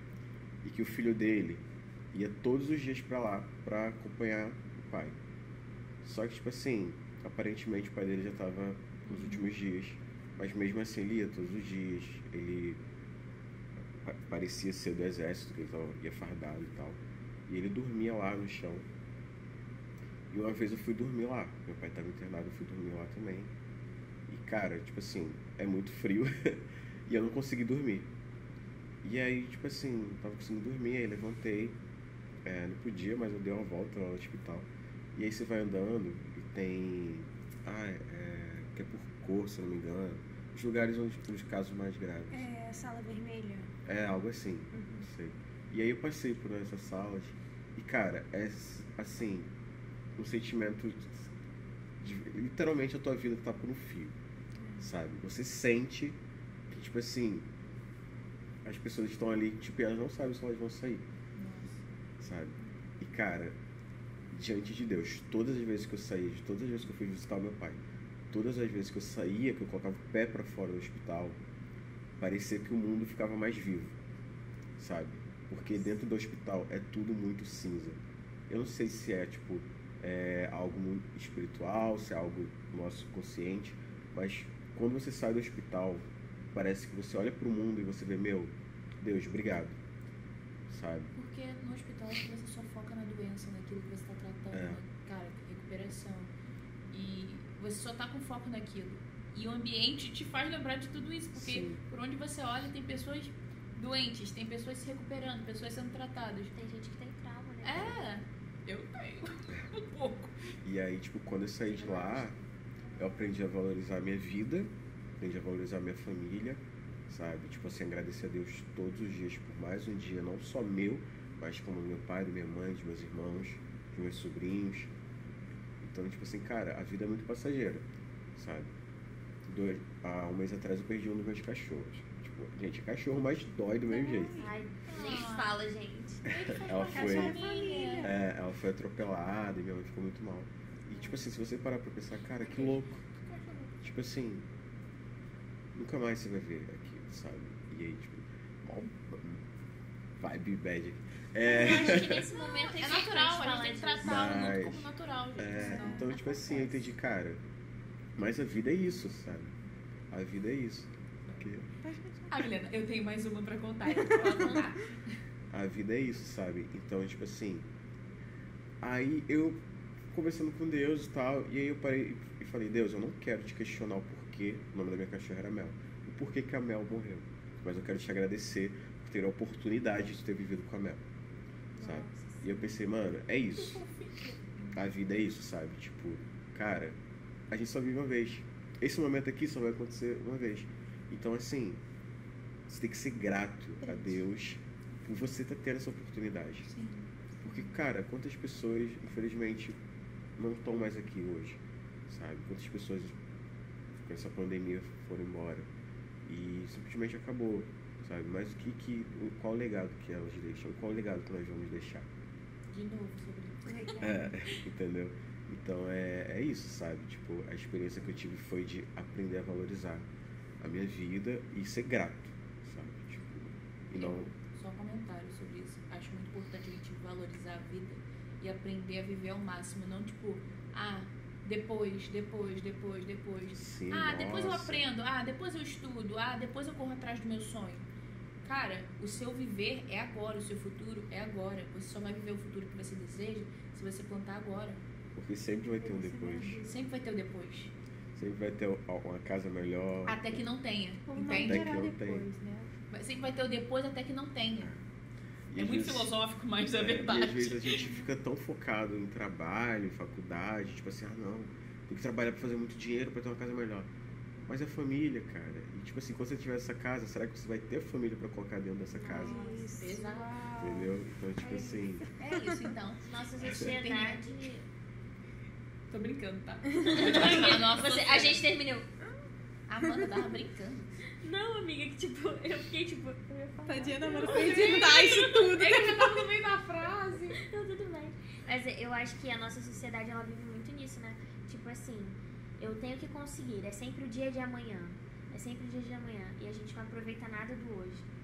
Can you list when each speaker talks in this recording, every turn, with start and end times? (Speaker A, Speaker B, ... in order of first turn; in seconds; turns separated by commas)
Speaker A: 0.6-5.1, Speaker A: 6.0-12.8, Speaker B: 9.1-9.5, Speaker A: 14.0-18.9, Speaker A: 20.3-23.5, Speaker A: 24.3-28.1, Speaker A: 29.0-31.8, Speaker A: 32.4-42.5, Speaker C: 42.3-43.7, Speaker A: 43.9-49.5, Speaker C: 44.7-45.1, Speaker A: 50.2-51.3, Speaker A: 52.0-54.1, Speaker A: 54.8-56.2, Speaker A: 56.7-57.5, Speaker A: 58.6-61.0, Speaker B: 61.3-61.7, Speaker A: 62.2-63.5, Speaker A: 64.3-67.8, Speaker A: 68.3-71.4, Speaker A: 72.2-74.0, Speaker A: 74.8-89.8, Speaker A: 90.7-91.1, Speaker B: 91.1-96.3, Speaker A: 94.5-94.8, Speaker B: 96.9-106.5, Speaker A: 101.3-101.8, Speaker D: 106.5-108.0, Speaker B: 107.6-110.5, Speaker A: 110.6-112.3, Speaker D: 111.7-112.3, Speaker A: 113.0-124.9, Speaker A: 125.8-127.8, Speaker A: 128.3-128.7, Speaker A: 129.4-134.4, Speaker C: 133.9-135.3, Speaker D: 134.4-136.2, Speaker B: 134.8-135.5, Speaker A: 136.3-137.4, Speaker B: 136.3-138.1, Speaker C: 136.9-138.1, Speaker A: 138.0-143.0, Speaker B: 142.4-143.7, Speaker A: 143.8-144.5, Speaker A: 145.7-149.4, Speaker A: 150.2-152.3, Speaker D: 151.4-154.2, Speaker B: 151.7-156.8, Speaker A: 154.0-157.4, Speaker C: 155.5-156.2, Speaker A: 158.2-159.5, Speaker A: 160.1-161.7, Speaker C: 161.8-162.4, Speaker B: 162.3-165.1, Speaker C: 163.9-164.7, Speaker D: 164.1-164.7, Speaker A: 165.5-167.7, Speaker A: 168.8-181.0, Speaker C: 181.7-182.8, Speaker A: 181.8-183.8, Speaker B: 183.5-184.8, Speaker A: 184.7-187.0, Speaker A: 187.5-191.8, Speaker A: 192.7-196.7, Speaker B: 196.7-197.6, Speaker A: 197.4-199.8, Speaker A: 200.4-203.2, Speaker A: 204.0-205.7, Speaker A: 206.2-212.1, Speaker B: 212.7-214.0, Speaker C: 213.7-214.3, Speaker A: 214.0-220.1, Speaker A: 220.6-224.3, Speaker B: 223.9-237.8, Speaker A: 233.5-234.8, Speaker B: 238.4-244.8, Speaker A: 245.2-246.6, Speaker C: 245.8-246.7, Speaker B: 246.6-247.7, Speaker A: 248.2-250.4, Speaker B: 250.1-251.7, Speaker C: 251.1-252.7, Speaker A: 251.3-252.2, Speaker B: 252.9-254.7, Speaker A: 255.5-256.1, Speaker B: 255.6-258.1, Speaker A: 256.8-263.9, Speaker A: 264.4-269.4, Speaker C: 269.0-272.7, Speaker D: 269.1-269.8, Speaker B: 269.8-270.3, Speaker A: 270.6-272.1, Speaker B: 272.2-274.5, Speaker D: 273.0-274.6, Speaker B: 275.9-278.4, Speaker D: 276.8-278.9, Speaker B: 279.7-280.9, Speaker D: 281.2-285.1, Speaker C: 283.6-286.3, Speaker B: 284.1-287.4, Speaker D: 287.4-298.1